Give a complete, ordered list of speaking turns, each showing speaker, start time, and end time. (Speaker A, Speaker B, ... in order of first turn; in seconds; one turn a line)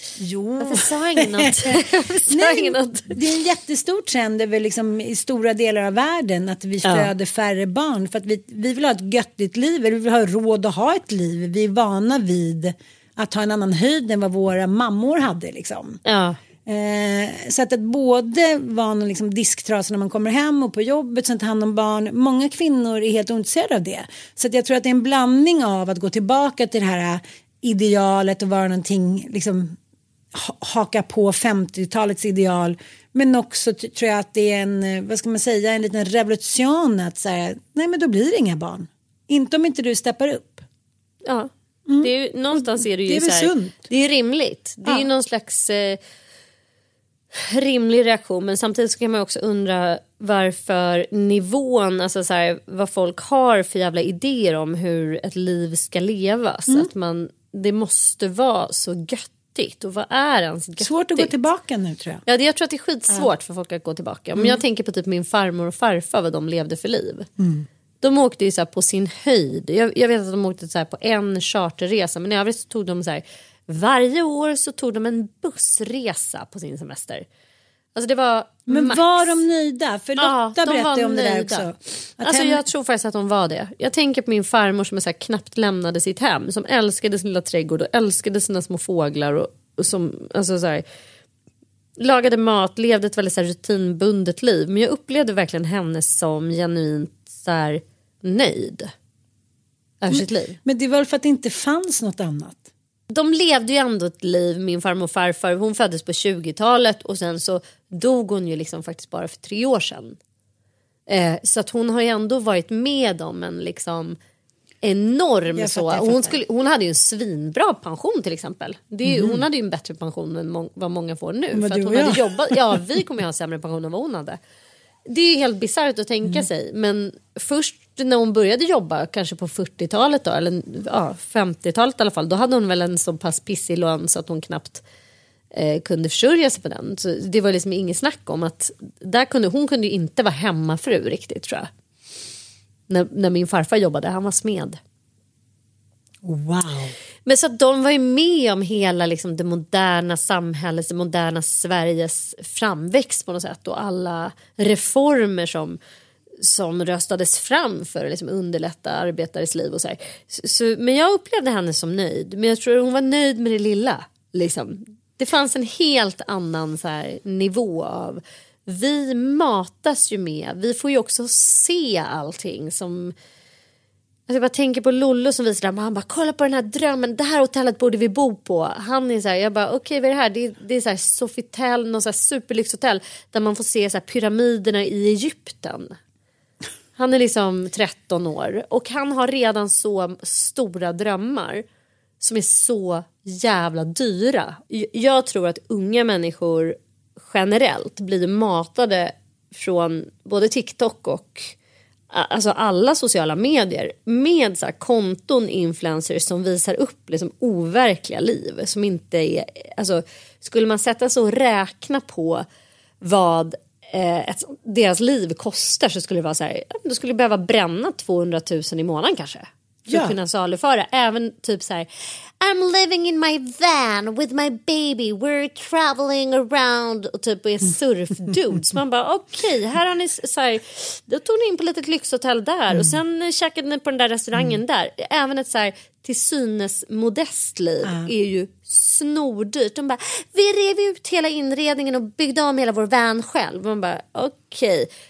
Speaker A: 0.2-1.8
Speaker B: 0.6-3.2
Speaker A: 2.3-16.0
Speaker B: 6.8-7.1
Speaker B: 16.1-16.4
Speaker A: 16.7-29.8
Speaker A: 30.3-40.7
Speaker B: 41.2-46.0
Speaker A: 41.9-43.9
Speaker B: 47.3-61.3
Speaker A: 60.8-62.2
Speaker B: 62.3-67.3
Speaker A: 64.4-64.6
Speaker A: 67.4-67.7
Speaker B: 68.0-77.3
Speaker B: 78.0-79.4
Speaker A: 78.7-82.7
Speaker B: 80.2-81.7
Speaker B: 82.2-90.8
Speaker B: 92.0-98.9
Speaker B: 100.0-100.6
Speaker A: 100.1-102.7
Speaker B: 103.1-110.2
Speaker B: 111.1-114.2
Speaker B: 114.8-124.4
Speaker A: 115.5-116.4
Speaker A: 119.0-119.4
Speaker A: 121.5-122.8
Speaker B: 125.1-134.8
Speaker B: 135.5-141.7
Speaker B: 142.9-144.8
Speaker A: 146.2-146.9
Speaker B: 147.3-155.8
Speaker B: 156.4-173.1
Speaker B: 174.3-186.0
Speaker B: 187.0-191.6
Speaker B: 192.2-201.5
Speaker B: 202.1-212.4
Speaker B: 213.0-221.9
Speaker A: 219.9-220.2
Speaker B: 222.4-244.9
Speaker A: 232.7-233.0
Speaker A: 237.8-238.1